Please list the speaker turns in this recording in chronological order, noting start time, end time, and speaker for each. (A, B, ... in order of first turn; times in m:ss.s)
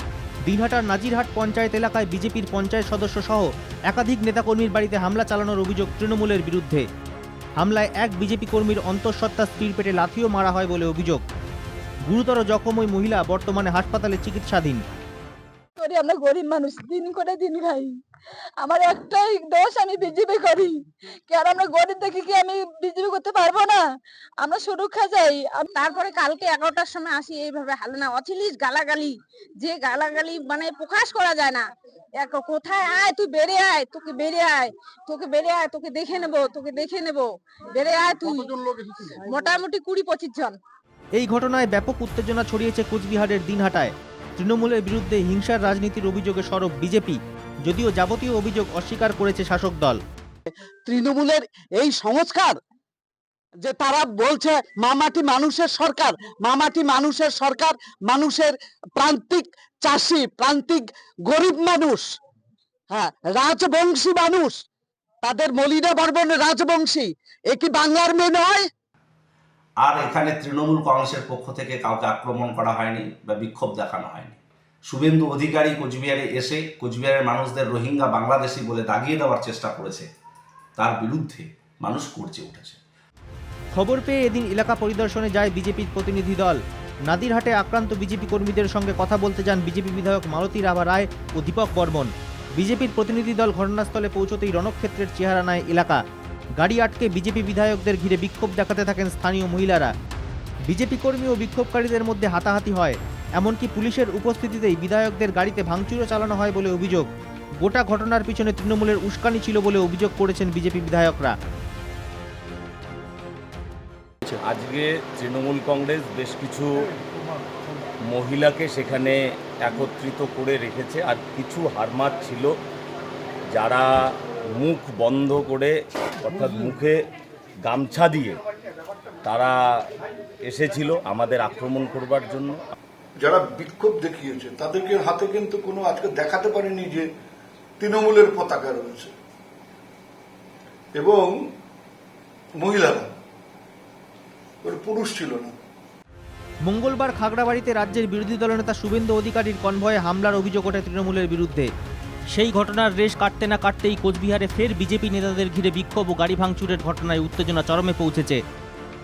0:00.4-0:06.8 A
0:07.6-0:11.2 A
0:12.1-0:14.8 A
0:15.8-0:17.9 B
0:18.6-0:20.7 B
0:21.3-0:23.8 B
0:24.4-0:25.8 B
0:25.8-0:31.6 C
0:32.2-0:40.5 C
0:41.2-0:50.0 A
0:50.8-0:52.6 D
0:53.6-1:02.2 D
1:02.9-1:04.6 D
1:05.2-1:08.7 D
1:09.8-1:20.1 E
1:20.8-1:22.8 E
1:23.7-1:36.0 A
1:36.6-1:39.9 A
1:40.7-1:47.1 A
1:47.6-1:51.3 A
1:54.4-1:56.9 F
1:58.1-2:02.5 F
2:03.5-2:07.0 F
2:07.6-2:08.4 F
2:09.2-2:09.8 F
2:10.5-2:12.6 F
2:13.2-2:17.1 G
2:17.8-2:19.1 G
2:20.9-2:21.5 G
2:22.6-2:23.1 G
2:24.6-2:25.5 G
2:26.6-2:31.7 A
2:32.3-2:38.4 A